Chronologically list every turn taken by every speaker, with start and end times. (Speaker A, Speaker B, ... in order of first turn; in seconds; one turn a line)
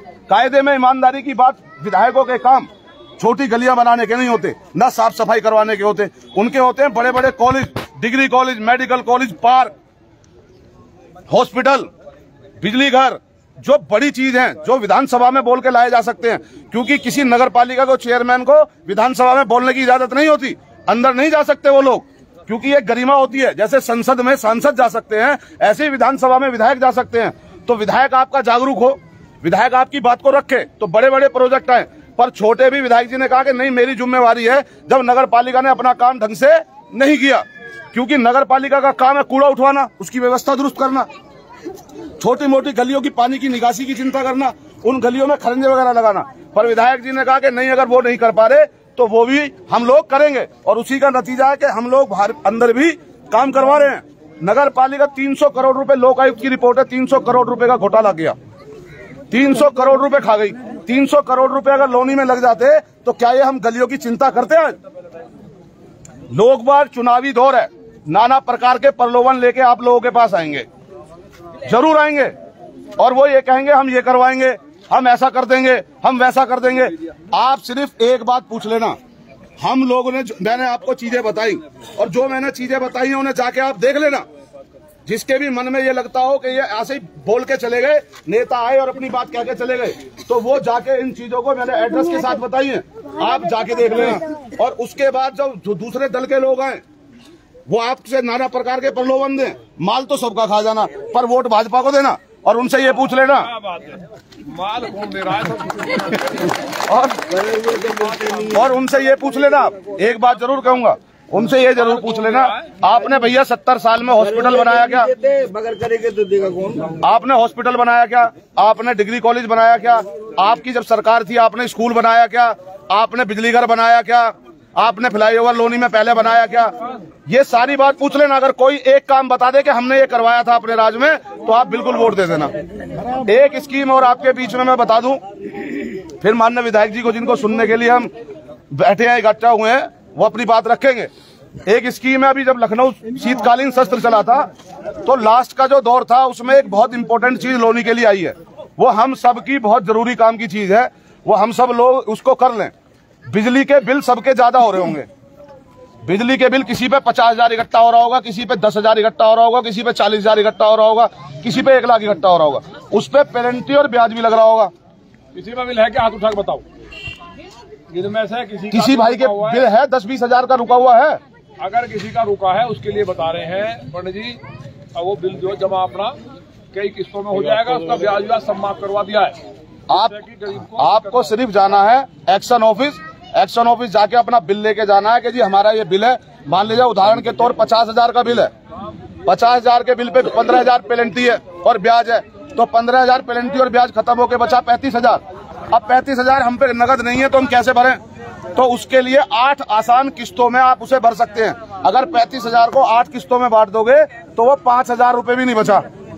Speaker A: 0.3-2.7
Speaker A: 3.2-9.7
Speaker A: 11.3-11.9
Speaker A: 12.6-41.1
Speaker A: 42.2-58.4
Speaker A: 59.3-64.8
Speaker A: 66.3-70.7
Speaker A: 71.6-72.3
Speaker A: 73.0-79.0
Speaker A: 79.6-84.3
Speaker A: 85.1-96.8
Speaker A: 97.7-103.5
Speaker B: 103.4-106.5
Speaker A: 106.9-107.2
Speaker C: 107.3-108.6
Speaker A: 108.5-115.1
Speaker B: 111.8-112.7
Speaker C: 114.2-117.0
Speaker A: 117.0-126.7
Speaker A: 127.3-132.5
Speaker A: 133.2-135.2
Speaker A: 136.2-138.1
Speaker A: 138.7-141.1
Speaker A: 141.7-144.5
Speaker A: 145.0-152.7
Speaker A: 153.3-155.1
Speaker A: 156.0-164.7
Speaker B: 165.3-166.6
Speaker B: 167.9-169.7
Speaker A: 168.7-171.2
Speaker B: 171.6-174.4
Speaker B: 174.9-176.2
Speaker B: 176.7-179.4
Speaker A: 179.9-180.2
Speaker B: 179.9-181.4
Speaker A: 180.8-188.5
Speaker A: 189.3-198.0
Speaker A: 198.6-205.9